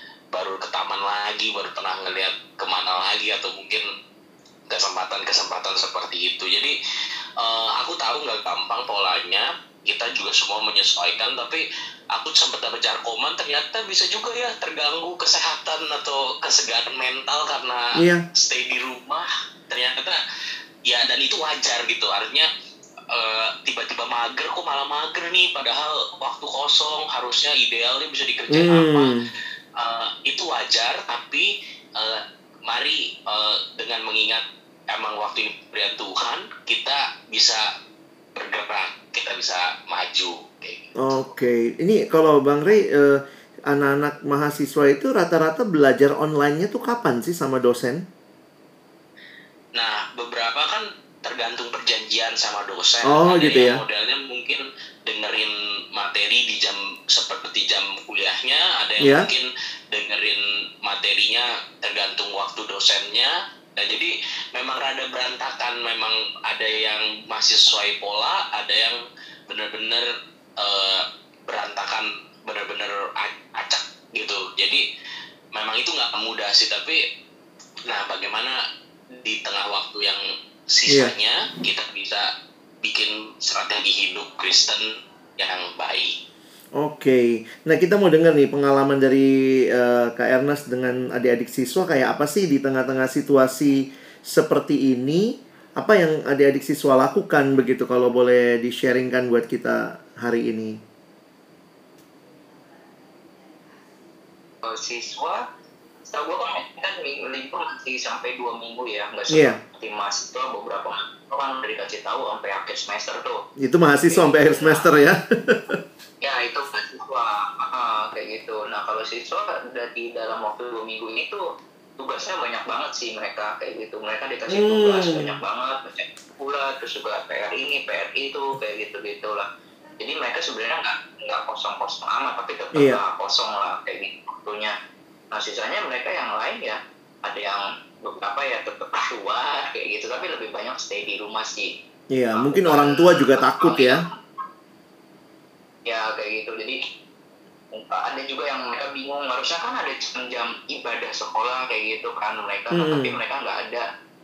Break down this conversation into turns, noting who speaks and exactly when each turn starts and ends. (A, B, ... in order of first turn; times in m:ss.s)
0:00.3-0:03.9 A
0:04.7-0:06.7 A
0:07.4-0:11.6 A
0:12.1-0:20.2 A
0:18.0-0:18.2 B
0:20.9-0:22.5 A
0:23.1-0:29.1 A
0:28.5-0:29.2 B
0:29.8-0:37.6 A
0:38.4-0:40.9 A
0:41.0-0:48.0 B
0:49.8-1:10.1 A
0:53.0-0:53.8 B
0:59.0-0:59.3 B
1:10.6-1:14.8 A
1:15.5-1:17.0 A
1:17.9-1:18.6 A
1:19.1-1:22.2 A
1:22.8-1:24.8 A
1:25.4-1:26.2 A
1:26.8-1:40.8 B
1:44.6-1:45.4 C
1:46.1-1:53.4 C
1:49.3-1:49.6 B
1:53.6-1:55.8 B
1:54.1-1:54.9 C
1:56.2-2:01.4 C
2:02.0-2:09.5 C
2:04.5-2:05.4 B
2:10.0-2:14.7 C
2:15.3-2:21.7 C
2:22.1-2:24.0 B
2:22.4-2:24.1 C
2:25.8-2:26.8 C
2:27.7-2:33.8 C
2:32.7-2:33.2 B